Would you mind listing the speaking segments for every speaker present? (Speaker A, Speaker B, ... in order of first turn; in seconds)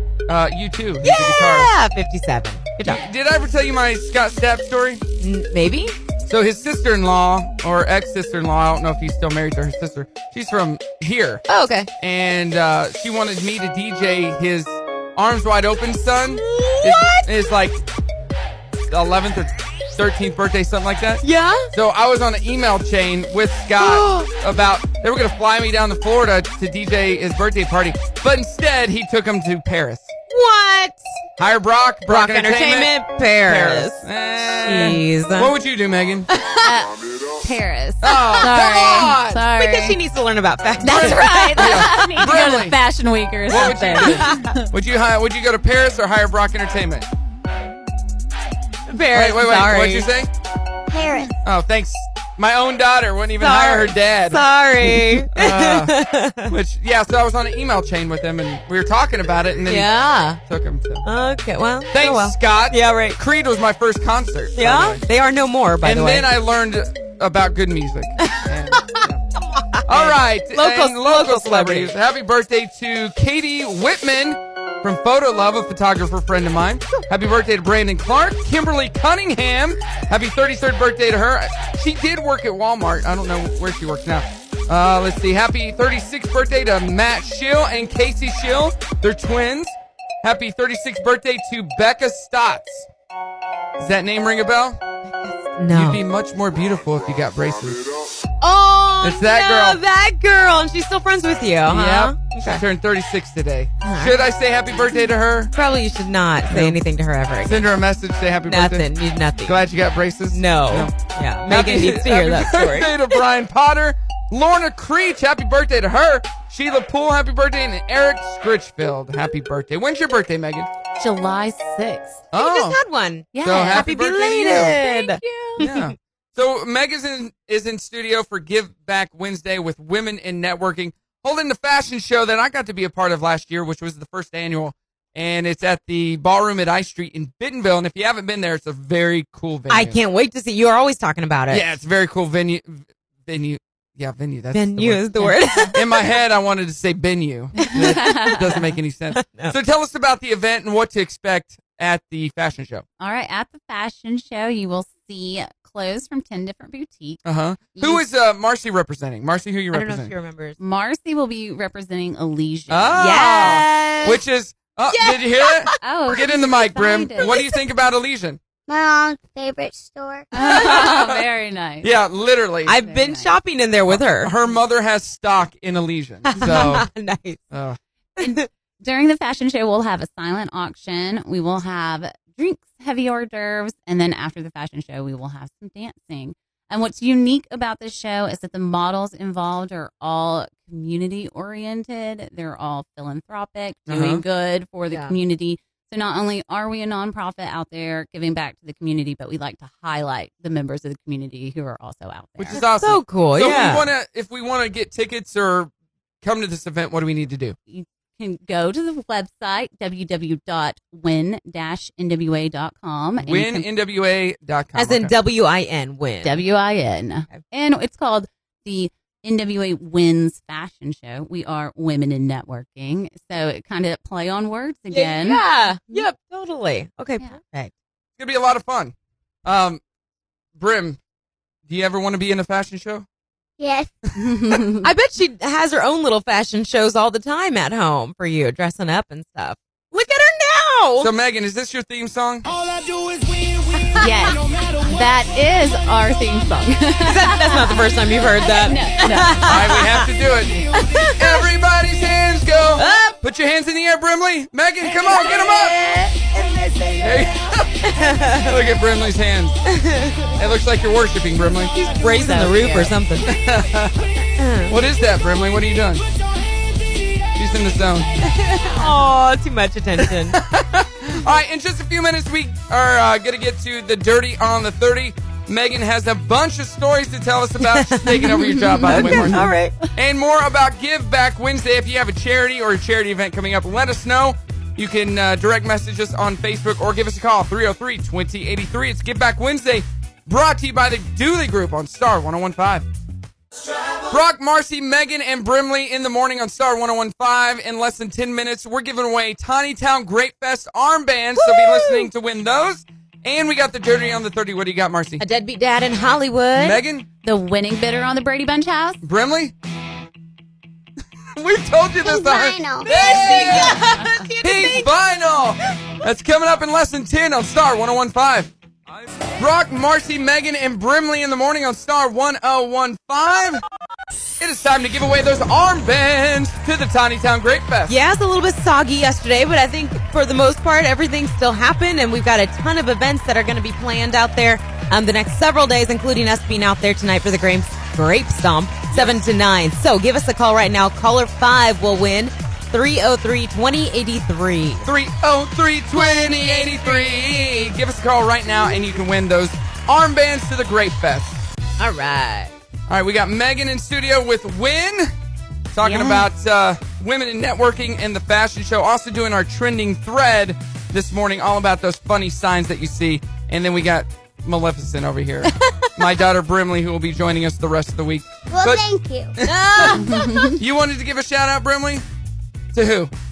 Speaker A: 0.3-1.7, 2.8-5.0, 6.3-11.4, 12.0-17.8, 18.9-30.1, 31.4-36.3, 38.0-39.4, 40.9-42.8, 43.5-47.1, 49.1-50.3, 51.4-61.0, 61.9-65.0, 65.8-69.2, 69.9-92.9, 93.8-94.8, 95.7-97.9, 99.0-99.8, 101.6-105.5, 106.5-106.8, 107.4-108.9, 109.4-110.9, 111.5-120.7, 122.3-122.8, 123.4-124.8, 125.6-140.0, 141.5-152.8, 157.2-160.1, 162.7-168.4, 170.4-171.2, 171.8-172.8, 173.9-176.9, 177.5-177.8, 193.9-194.2, 202.4-207.6, 213.2-215.1, 228.2-228.9, 229.4-229.8, 230.6-231.0, 231.7-233.1, 241.0-242.5, 249.4-255.8, 257.0-259.6, 260.4-261.7, 263.2-264.1, 264.7-266.0, 267.3-268.1, 270.0-292.9, 294.1-305.2, 306.5-307.1, 309.0-309.5, 311.3-313.8, 314.4-318.5, 319.2-323.6, 324.4-327.9, 338.9-339.2, 344.9-351.4, 352.9-355.1, 355.7-368.8, 369.4-370.0, 370.6-372.0, 372.7-373.1
Speaker B: 1.0-3.0, 5.2-5.9, 11.5-11.9, 16.3-17.3, 21.2-21.7, 23.8-24.3, 30.3-31.0, 32.1-35.5, 36.3-36.7, 38.1-39.0, 39.5-42.2, 43.6-44.5, 48.9-50.1, 53.4-56.5, 59.7-60.4, 61.0-63.2, 64.5-66.3, 68.2-71.9, 95.2-96.0, 98.4-102.6, 103.8-104.2, 105.5-107.7, 108.5-109.6, 110.3-113.0, 122.3-125.9, 139.7-141.7, 144.5-145.8, 147.6-148.4, 149.1-149.6, 159.7-160.6, 162.9-164.2, 164.9-166.2, 167.2-167.5, 172.7-174.3, 176.2-177.4, 178.2-178.5, 194.9-195.2, 202.5-203.8, 214.8-216.4, 224.9-227.7, 234.8-241.1, 243.7-244.1, 247.0-250.1, 250.7-251.4, 252.8-253.2, 254.9-257.2, 257.8-258.5, 259.6-260.4, 261.7-263.3, 264.4-264.8, 268.2-270.4, 277.6-279.7, 301.4-302.1, 305.2-306.8, 312.8-314.9, 327.9-344.9, 346.2-347.3, 351.8-352.5, 365.5-366.1, 369.4-370.5
Speaker C: 36.6-40.0, 40.8-44.7, 121.0-122.2, 123.3-125.7, 147.6-148.6, 153.0-157.2, 157.7-158.0, 160.6-163.6, 165.8-167.4, 170.3-171.9, 172.8-173.3, 178.2-202.6, 207.7-213.6, 216.2-226.0, 234.1-234.9, 243.9-249.7, 262.0-262.9, 278.7-279.5, 307.2-309.0, 355.8-356.2, 369.9-370.6
Speaker D: 50.9-51.3, 168.7-170.3, 233.6-233.9, 312.0-312.9, 368.5-369.4